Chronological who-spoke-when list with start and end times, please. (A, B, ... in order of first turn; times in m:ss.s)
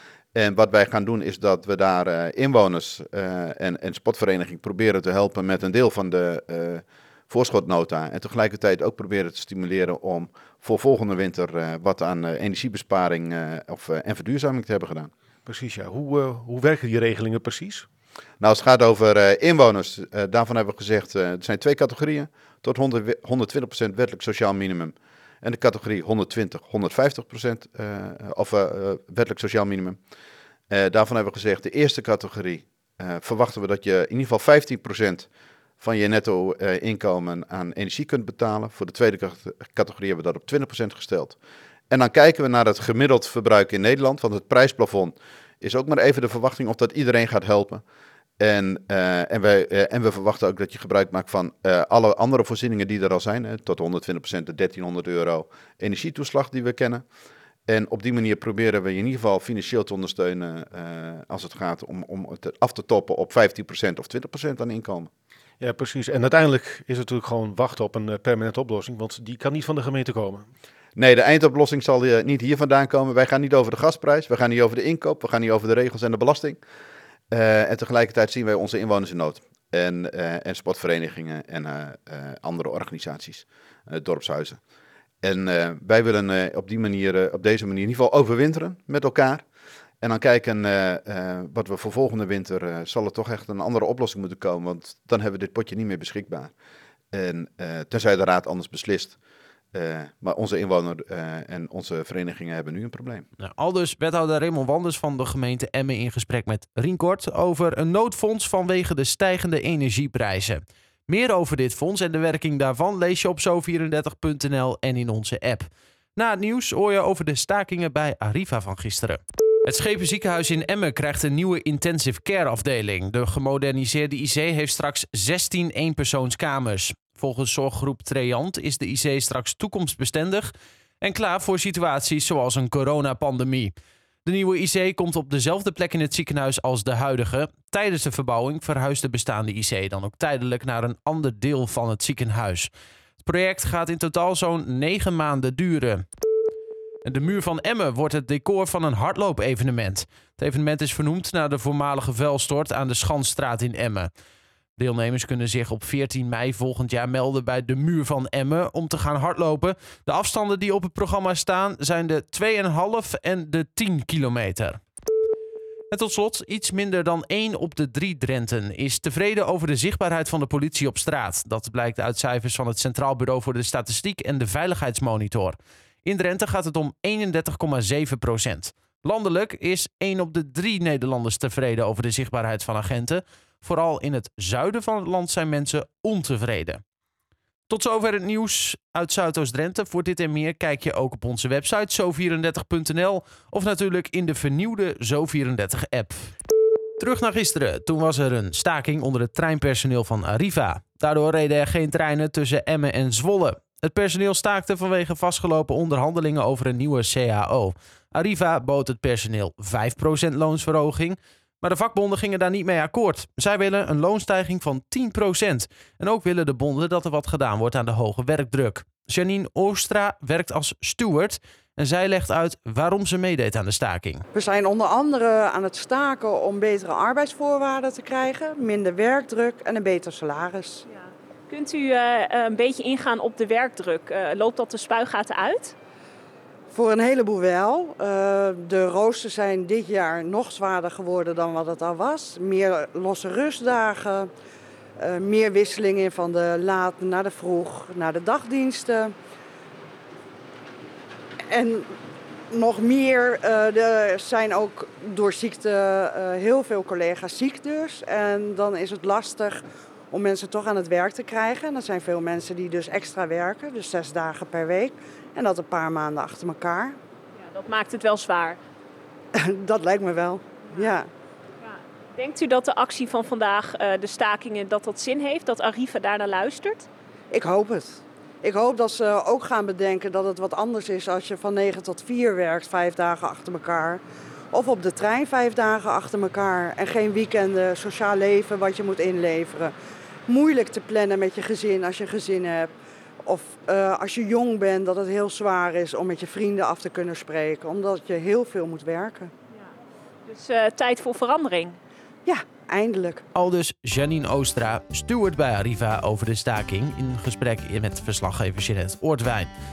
0:00.3-0:15.1 A
0:15.4-0:17.8 B
0:18.4-0:30.0 A
0:30.7-0:35.3 A
0:35.8-0:41.4 A
0:41.9-0:47.8 A
0:48.4-0:57.0 A
0:57.7-1:05.1 A
1:05.6-1:10.5 B
1:11.0-1:16.6 A
1:17.3-1:24.6 A
1:25.2-1:29.4 A
1:30.0-1:36.5 A
1:37.1-1:39.2 A
1:39.7-1:43.2 A
1:43.4-2:13.7 C
2:14.2-2:22.7 C
2:23.2-2:26.0 C
2:27.0-2:34.1 C
2:34.8-2:44.8 C
2:45.9-3:06.8 C
3:07.7-3:16.3 C
3:17.0-3:44.2 C
3:44.3-3:50.8 D
3:51.5-3:55.7 E
3:56.7-4:04.3 D
4:05.0-4:09.1 D
4:11.5-4:11.9 D
4:12.5-4:27.0 D
4:27.4-4:28.6 E
4:29.3-4:31.1 D
4:31.6-4:36.9 E
4:37.3-4:44.0 D
4:44.5-4:49.7 D
4:50.3-4:52.7 D
4:53.2-4:59.3 D
5:00.3-5:01.8 E
5:02.2-5:03.2 D
5:03.3-5:09.5 C